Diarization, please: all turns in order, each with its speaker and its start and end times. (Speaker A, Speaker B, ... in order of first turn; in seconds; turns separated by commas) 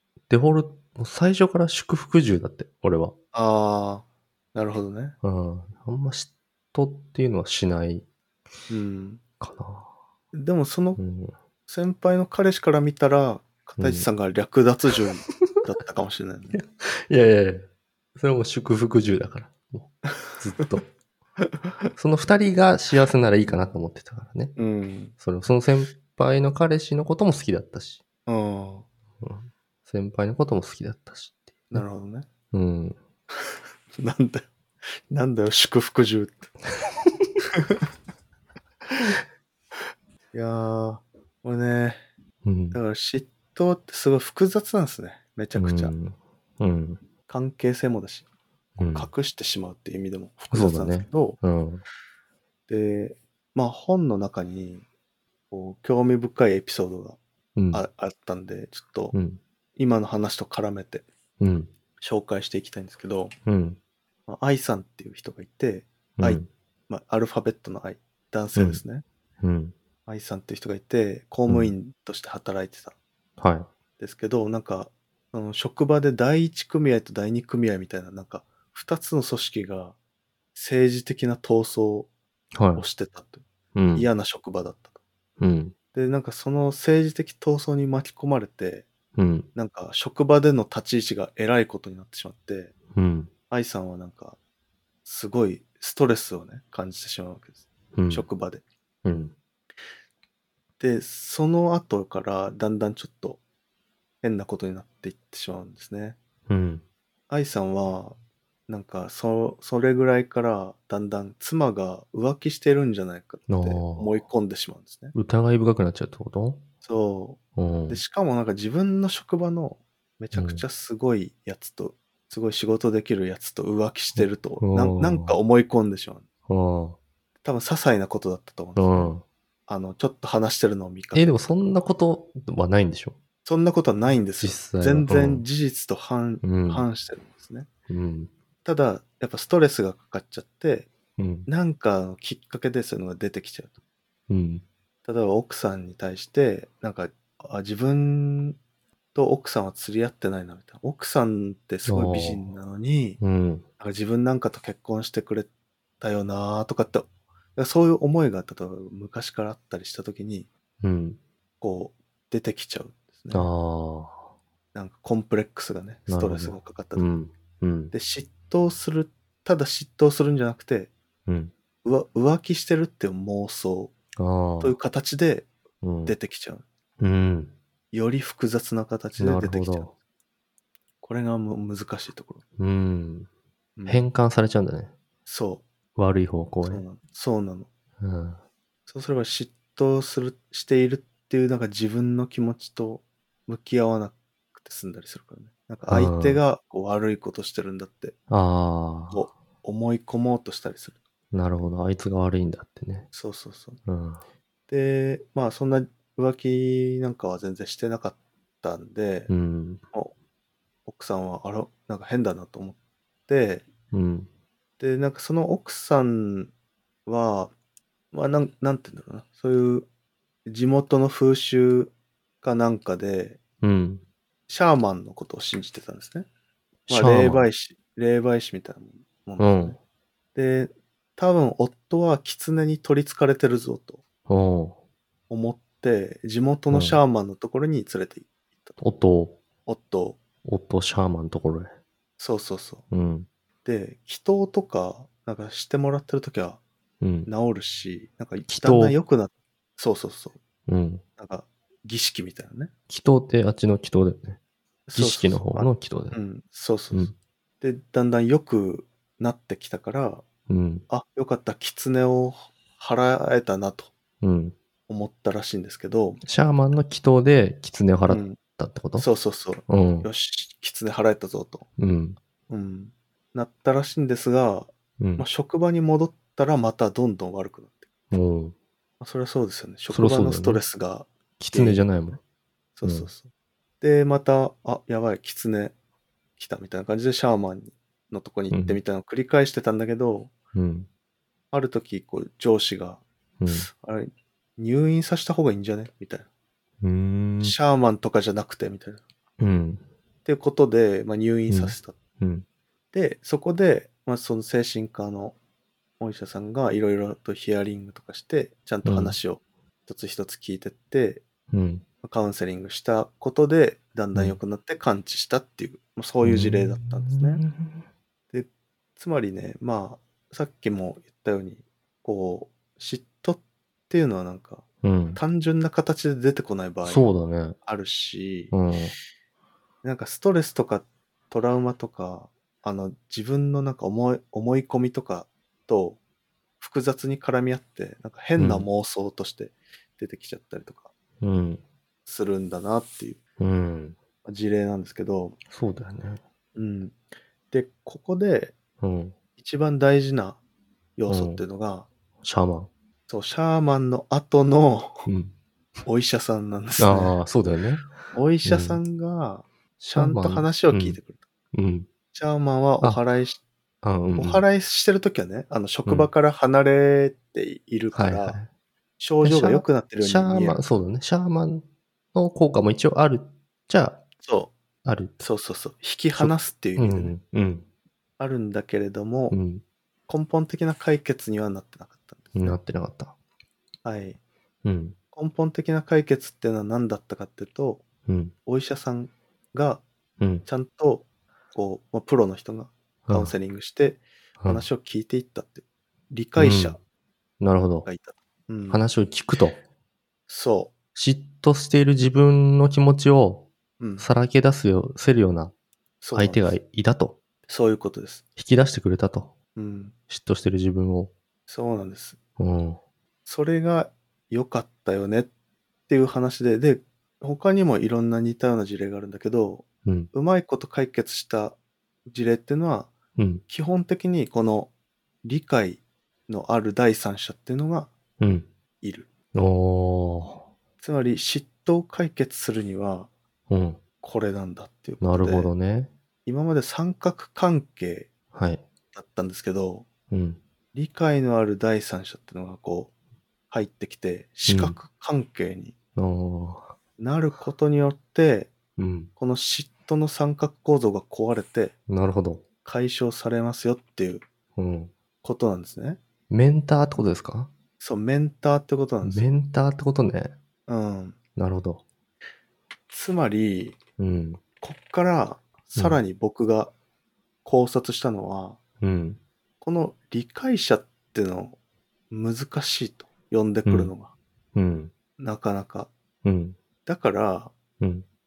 Speaker A: 0.3-3.1, Speaker B: 3.3-5.1, Speaker A: 5.2-8.0, Speaker B: 8.7-9.2, Speaker A: 9.4-9.9, Speaker B: 10.3-11.0, Speaker A: 11.0-11.3, Speaker B: 11.7-16.6, Speaker A: 13.8-14.1, Speaker A: 16.5-20.9, Speaker A: 21.9-24.6, Speaker B: 24.6-25.1, Speaker A: 25.2-28.0, Speaker B: 28.3-28.9, Speaker A: 29.2-31.8, Speaker B: 31.7-32.3, Speaker A: 32.5-33.0, Speaker B: 34.0-36.5, Speaker B: 40.3-42.0, Speaker A: 42.4-42.8, Speaker B: 42.7-45.9, Speaker A: 45.5-47.0, Speaker B: 47.3-48.2, Speaker A: 48.8-49.1, Speaker B: 48.9-51.4, Speaker A: 50.5-51.8, Speaker B: 52.7-54.8, Speaker B: 55.5-57.2, Speaker A: 57.5-57.8, Speaker B: 57.7-59.1, Speaker A: 59.1-59.4, Speaker B: 59.8-61.0, Speaker A: 61.4-61.7, Speaker B: 62.0-63.3, Speaker A: 63.5-63.8, Speaker B: 64.3-69.0, Speaker A: 66.2-66.5, Speaker A: 68.5-68.8, Speaker A: 69.4-69.7, Speaker B: 70.1-72.9, Speaker A: 71.5-71.7, Speaker A: 73.4-73.7, Speaker B: 74.0-80.0, Speaker B: 80.5-82.1, Speaker A: 82.5-82.8, Speaker B: 82.7-85.0, Speaker A: 83.7-84.1, Speaker A: 85.4-85.7, Speaker B: 85.9-88.9, Speaker A: 89.2-89.5, Speaker B: 89.5-92.7, Speaker A: 92.9-93.3, Speaker B: 93.5-94.4, Speaker B: 95.0-98.6, Speaker A: 97.9-98.2, Speaker A: 99.0-99.3, Speaker B: 100.8-103.4, Speaker B: 104.2-106.2, Speaker A: 106.5-106.8, Speaker B: 107.3-115.1, Speaker A: 113.5-114.1, Speaker A: 115.1-116.6, Speaker B: 116.8-126.2, Speaker A: 117.5-118.0, Speaker A: 120.3-120.6, Speaker A: 124.1-125.4, Speaker A: 126.5-127.0, Speaker B: 127.4-129.1, Speaker A: 128.8-129.2, Speaker B: 129.7-131.5, Speaker A: 131.1-133.2, Speaker B: 133.4-137.7, Speaker A: 134.4-135.4, Speaker A: 136.4-136.8, Speaker A: 137.9-138.3, Speaker B: 138.6-140.9, Speaker A: 141.2-141.5, Speaker B: 141.5-143.7, Speaker A: 144.3-144.6, Speaker B: 145.0-148.6, Speaker B: 149.1-153.2, Speaker A: 151.8-152.5, Speaker A: 153.2-153.6, Speaker B: 153.8-155.5, Speaker B: 156.0-160.5, Speaker A: 160.8-161.2, Speaker B: 161.6-163.5, Speaker A: 163.3-164.2, Speaker B: 164.7-167.1, Speaker A: 166.1-167.9, Speaker B: 167.9-170.9, Speaker A: 171.3-171.5, Speaker B: 171.8-173.9, Speaker A: 174.2-174.8, Speaker B: 174.6-175.5, Speaker A: 175.8-176.1, Speaker B: 176.0-176.6, Speaker A: 177.0-177.5, Speaker B: 177.9-179.9, Speaker A: 179.2-179.9, Speaker B: 181.0-182.4, Speaker A: 182.6-183.3, Speaker B: 183.8-184.0, Speaker A: 183.9-184.9, Speaker B: 185.2-185.6, Speaker A: 185.9-186.8, Speaker B: 186.6-187.7, Speaker A: 188.0-188.4, Speaker B: 188.9-198.1, Speaker A: 195.9-196.4, Speaker A: 198.3-199.2, Speaker B: 199.1-200.9, Speaker A: 201.3-203.1, Speaker B: 203.1-203.8, Speaker A: 203.8-204.2, Speaker B: 204.7-209.3, Speaker A: 209.3-209.8, Speaker B: 210.8-213.7, Speaker A: 213.9-214.3, Speaker B: 214.8-216.5, Speaker B: 217.1-217.5, Speaker B: 218.1-219.9, Speaker B: 220.4-223.4, Speaker A: 223.6-224.0, Speaker B: 224.5-226.3, Speaker B: 226.9-229.8, Speaker A: 226.9-227.5, Speaker A: 229.4-229.8, Speaker B: 230.3-234.0, Speaker A: 234.3-234.8, Speaker B: 235.3-238.8, Speaker A: 236.7-237.0, Speaker A: 238.8-239.4, Speaker B: 239.7-240.2, Speaker A: 240.4-241.7, Speaker B: 242.2-242.8, Speaker A: 242.9-243.3, Speaker B: 243.6-246.6, Speaker A: 247.0-247.3, Speaker B: 247.2-250.4, Speaker A: 248.5-249.0, Speaker A: 250.7-251.0, Speaker B: 251.2-252.7, Speaker A: 252.9-254.4, Speaker B: 254.9-260.2, Speaker A: 254.9-256.2, Speaker A: 260.5-260.8, Speaker B: 260.9-263.9, Speaker A: 264.2-264.5, Speaker B: 264.9-266.2, Speaker A: 266.2-269.1, Speaker B: 268.1-268.4, Speaker B: 268.9-271.7, Speaker A: 269.7-270.1, Speaker A: 271.8-272.2, Speaker B: 272.5-277.9, Speaker A: 275.0-275.2, Speaker A: 278.1-278.5, Speaker B: 279.0-281.9, Speaker A: 279.9-280.6, Speaker A: 281.4-282.2, Speaker B: 282.8-283.3, Speaker A: 282.8-283.1, Speaker B: 283.8-285.7, Speaker B: 286.4-290.3, Speaker A: 288.5-288.8, Speaker A: 290.5-290.9, Speaker B: 291.5-296.3, Speaker A: 293.4-293.7, Speaker A: 296.8-297.6, Speaker B: 297.4-299.0, Speaker A: 299.4-299.8, Speaker B: 300.2-301.9, Speaker A: 301.5-302.4, Speaker B: 302.9-305.4, Speaker B: 306.0-311.2, Speaker A: 308.8-309.1, Speaker A: 311.5-311.8, Speaker B: 312.0-317.4, Speaker A: 316.2-317.8, Speaker B: 318.3-327.1, Speaker A: 324.8-325.2, Speaker A: 326.8-327.6, Speaker B: 327.6-328.5, Speaker A: 328.5-328.9, Speaker B: 329.8-336.0, Speaker B: 336.6-340.9, Speaker A: 338.4-338.7, Speaker A: 341.2-341.6, Speaker B: 342.1-343.2, Speaker A: 343.4-344.0, Speaker B: 344.2-345.4, Speaker A: 345.5-346.2, Speaker B: 346.6-347.0, Speaker B: 347.5-348.5, Speaker A: 348.8-349.1, Speaker B: 349.4-350.4, Speaker B: 351.0-351.9, Speaker A: 351.1-351.4, Speaker A: 352.2-352.7, Speaker B: 353.1-355.1, Speaker A: 355.1-355.3, Speaker B: 355.9-357.1, Speaker A: 356.8-357.9, Speaker B: 358.1-361.2, Speaker A: 358.4-358.8, Speaker A: 359.8-361.0, Speaker A: 361.5-361.9, Speaker B: 362.1-363.4, Speaker A: 363.8-364.4, Speaker B: 364.1-368.4, Speaker A: 367.9-368.5, Speaker B: 369.0-370.6, Speaker A: 369.2-374.0, Speaker B: 374.2-374.5, Speaker A: 374.8-375.2, Speaker B: 375.2-377.1, Speaker A: 376.1-377.6, Speaker B: 378.2-379.4, Speaker A: 379.3-379.6, Speaker B: 380.1-382.6, Speaker A: 382.3-383.1, Speaker B: 383.8-384.2, Speaker A: 384.6-385.0, Speaker B: 385.1-387.8, Speaker A: 388.1-388.3, Speaker B: 388.4-389.8, Speaker A: 390.2-390.4, Speaker B: 390.4-396.8, Speaker A: 393.1-393.3, Speaker A: 394.4-394.6, Speaker A: 396.4-396.8, Speaker A: 397.4-397.9, Speaker B: 397.9-398.8, Speaker A: 398.7-399.6, Speaker B: 400.3-400.7, Speaker A: 400.9-405.5, Speaker B: 403.8-404.1, Speaker B: 406.0-406.5, Speaker A: 406.1-407.2, Speaker B: 407.5-408.2, Speaker A: 408.4-409.3, Speaker B: 409.6-409.9, Speaker A: 410.1-411.1, Speaker B: 411.5-412.2, Speaker A: 412.4-412.8, Speaker B: 413.2-415.3, Speaker B: 415.9-422.9, Speaker A: 419.8-420.1, Speaker A: 423.2-423.4, Speaker B: 423.5-424.7, Speaker B: 425.2-427.9, Speaker A: 428.2-428.5, Speaker B: 428.8-429.1, Speaker A: 429.3-430.4, Speaker B: 430.8-433.1, Speaker A: 433.5-433.8, Speaker B: 434.0-435.5, Speaker A: 435.0-435.9, Speaker B: 436.2-438.1, Speaker A: 438.3-438.6, Speaker B: 438.9-439.9, Speaker A: 440.1-440.4, Speaker B: 440.7-442.9, Speaker B: 443.5-445.7, Speaker A: 444.5-444.8, Speaker A: 445.9-446.7, Speaker B: 447.0-448.5, Speaker A: 448.8-449.1, Speaker B: 449.2-451.7, Speaker A: 451.9-452.4, Speaker B: 452.6-454.2, Speaker A: 454.6-454.9, Speaker B: 455.2-456.0, Speaker A: 456.3-457.5, Speaker B: 457.8-459.3, Speaker A: 459.0-460.3, Speaker B: 460.7-461.2, Speaker A: 461.4-461.8, Speaker B: 462.9-463.8, Speaker A: 464.0-464.4, Speaker B: 464.6-466.7, Speaker B: 467.4-468.6, Speaker A: 468.8-469.2, Speaker B: 469.6-471.6, Speaker B: 472.1-474.1, Speaker A: 473.6-473.9, Speaker A: 474.5-474.9, Speaker B: 475.2-475.9, Speaker A: 476.2-476.6, Speaker B: 476.9-477.5, Speaker A: 477.8-478.0